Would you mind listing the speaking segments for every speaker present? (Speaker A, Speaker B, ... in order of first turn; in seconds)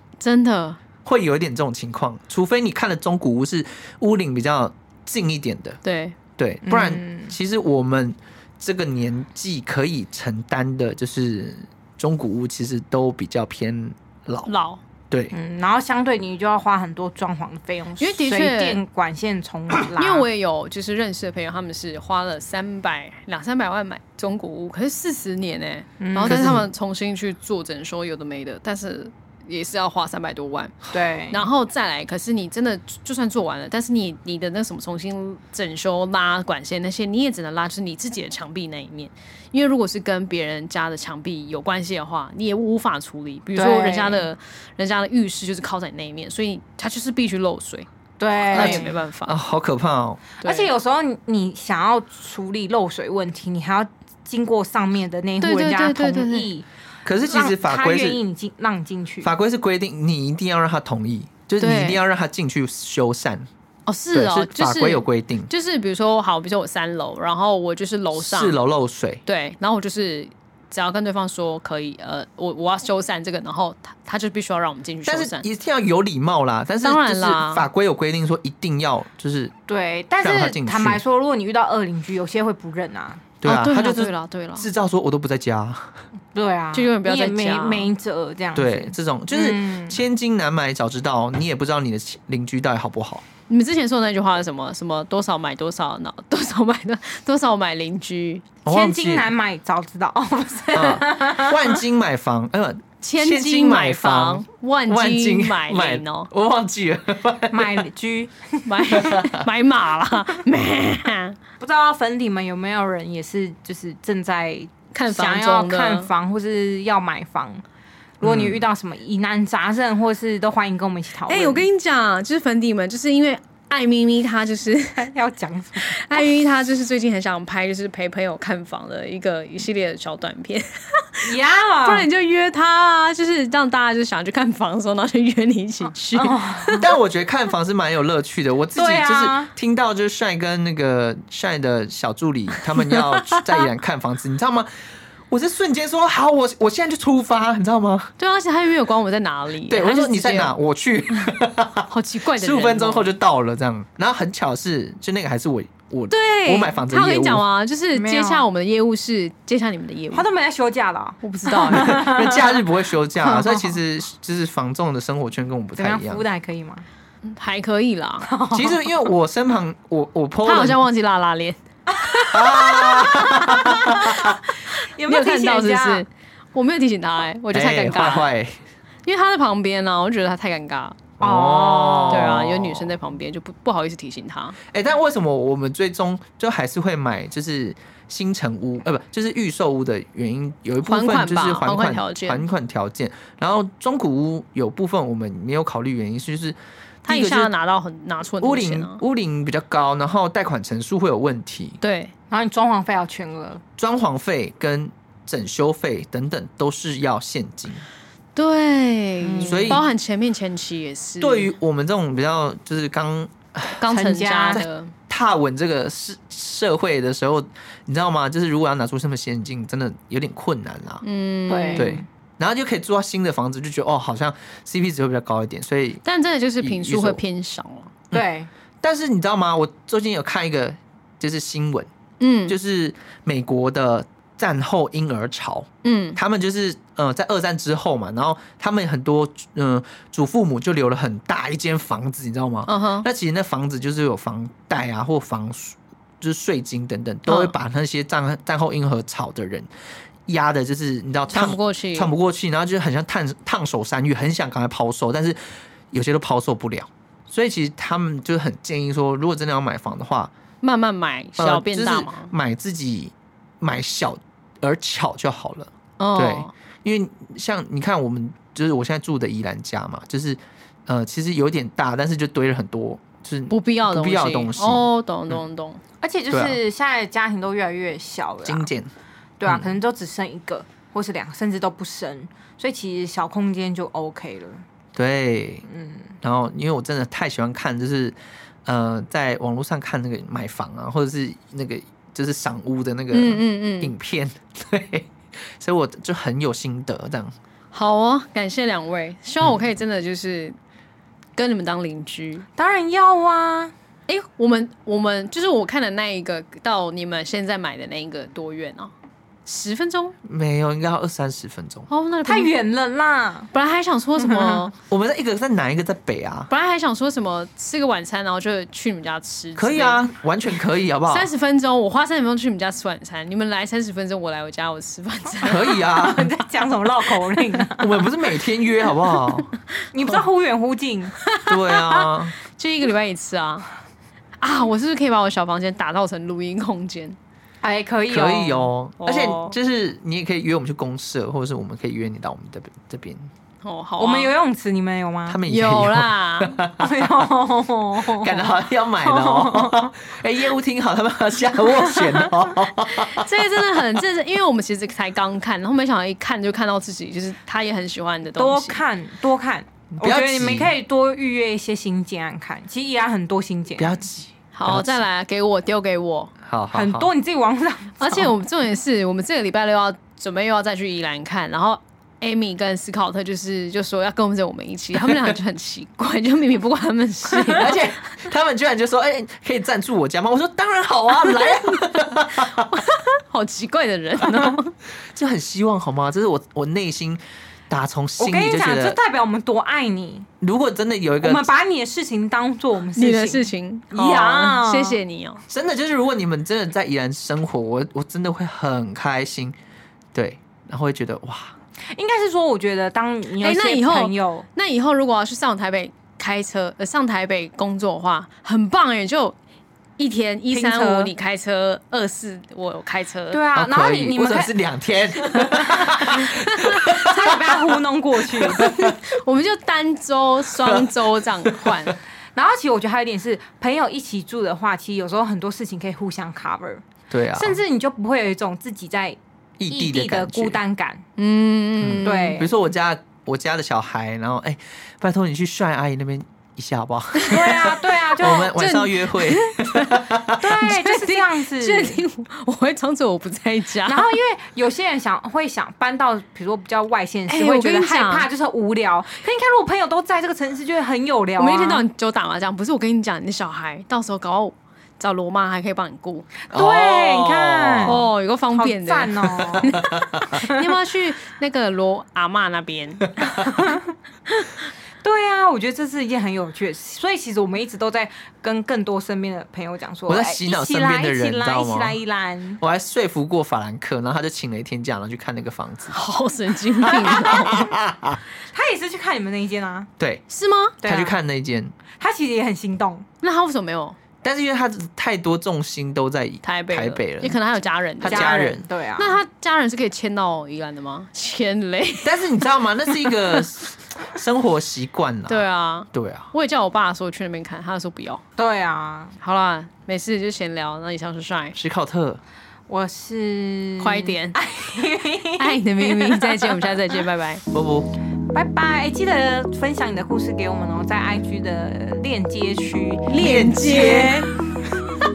Speaker A: 0.2-0.8, 5.8-6.2, 14.5-14.8, 18.0-18.8, 20.0-47.9, 48.5-49.4, 50.4-50.7, 55.4-56.5, 61.6-62.0, 63.9-68.5, 69.2-75.4, 76.8-77.7, 83.4-84.7, 86.7-87.9, 93.5-98.5, 103.0-106.3, 108.7-111.4, 114.9-116.1, 121.3-125.1, 125.8-131.2, 131.8-136.8, 148.2-150.5, 151.1-153.1, 156.1-160.3, 161.2-162.3, 167.2-168.3, 170.4-174.3, 175.0-178.3, 179.0-181.0, 182.1-184.6, 190.8-192.5, 197.1-199.0, 201.8-202.1, 208.3-211.5, 213.8-214.9, 221.0-222.0, 226.0-227.9, 232.2-232.6, 235.8-236.2, 242.7-243.1, 247.3-247.5, 251.3-252.1, 260.6-262.3, 266.0-266.5, 273.5-275.8, 293.1-293.9, 297.7-300.6, 301.4-302.5, 304.1-308.9, 309.4-310.1, 311.9-312.5, 313.5-314.7, 316.5-320.1, 321.1-325.9, 331.3-333.6, 334.4-337.2, 339.0-339.6, 343.6-344.3, 345.5-346.6, 352.9-358.8, 364.5-366.3, 368.0-378.1, 382.4-384.7, 392.9-395.4, 403.4-409.4, 410.0-413.4, 416.6-416.8, 418.5-421.9, 431.2-432.4, 437.2-437.5, 438.2-444.1, 447.3-448.3, 451.4-456.3, 457.8-463.7, 475.9-477.7, 480.3-480.8, 483.2-484.0, 486.4-492.3, 493.0-493.5, 495.3-498.2, 499.2-501.6, 503.8-504.4, 505.4-507.4, 513.1-514.2
Speaker B: 1.0-5.8, 6.4-14.5, 26.2-26.7, 48.5-50.2, 57.0-58.2, 59.2-63.5, 64.1-65.5, 68.1-69.2, 75.0-79.5, 80.2-81.0, 83.4-86.0, 88.5-93.2, 98.7-99.3, 100.7-107.8, 109.0-109.5, 118.2-118.6, 136.8-144.7, 145.3-148.1, 149.7-157.4, 161.7-166.2, 168.5-170.8, 172.3-174.4, 177.5-178.6, 181.2-182.9, 184.7-197.5, 198.4-201.8, 203.8-207.8, 209.4-209.8, 211.2-213.8, 214.5-221.0, 221.8-226.0, 226.6-227.2, 228.8-231.9, 232.5-249.7, 250.3-255.4, 255.9-260.3, 261.4-275.4, 276.3-276.6, 278.4-278.9, 279.4-279.7, 284.9-285.6, 286.2-297.3, 310.2-311.9, 314.8-316.5, 319.6-321.3, 325.4-326.3, 327.8-329.5, 331.5-332.4, 338.1-343.3, 345.3-347.3, 348.0-354.0, 359.9-360.7, 363.8-365.0, 366.4-367.1, 375.0-375.4, 377.4-382.7, 384.2-384.5, 385.1-389.0, 390.4-391.4, 395.5-399.6, 400.1-401.5, 413.5-417.8, 418.4-419.0, 420.5-421.9, 427.1-427.6, 429.6-430.6, 431.8-440.4, 456.5-458.0, 459.6-460.3, 470.1-472.0, 472.6-476.0, 476.8-478.2, 480.8-481.7, 484.2-487.4, 488.0-488.6, 492.0-496.3, 501.5-502.2, 507.5-507.9, 513.1-514.2
Speaker C: 6.6-7.3, 15.3-20.2, 26.0-26.6, 30.9-31.4, 43.5-44.3, 48.2-49.0, 50.4-56.6, 57.2-59.3, 79.7-83.2, 86.3-90.0, 98.6-101.8, 107.5-109.2, 111.6-117.6, 118.2-121.7, 124.9-126.3, 131.2-132.1, 136.2-136.8, 138.7-139.5, 157.9-158.4, 160.1-162.6, 163.2-163.7, 165.8-166.9, 168.2-168.8, 171.9-176.0, 181.2-182.3, 202.3-203.6, 209.2-209.8, 213.9-214.6, 221.5-222.1, 228.1-228.5, 276.0-278.7, 279.4-284.6, 285.6-286.1, 302.6-303.7, 312.2-313.5, 314.2-314.6, 325.5-328.1, 329.9-331.2, 337.6-338.7, 344.0-345.4, 346.8-349.9, 351.9-352.2, 358.3-364.0, 366.7-368.3, 388.2-390.3, 391.2-395.0, 401.9-404.4, 410.5-411.1, 413.3-414.5, 415.2-418.7, 422.3-431.0, 432.0-432.5, 437.3-438.5, 440.4-442.0, 443.8-451.8, 456.5-458.0, 458.5-460.6, 463.2-463.9, 465.0-472.6, 476.9-477.6, 478.5-479.9, 480.8-481.1, 482.0-483.1, 488.0-489.2, 498.4-499.2, 502.7-506.8, 508.3-514.3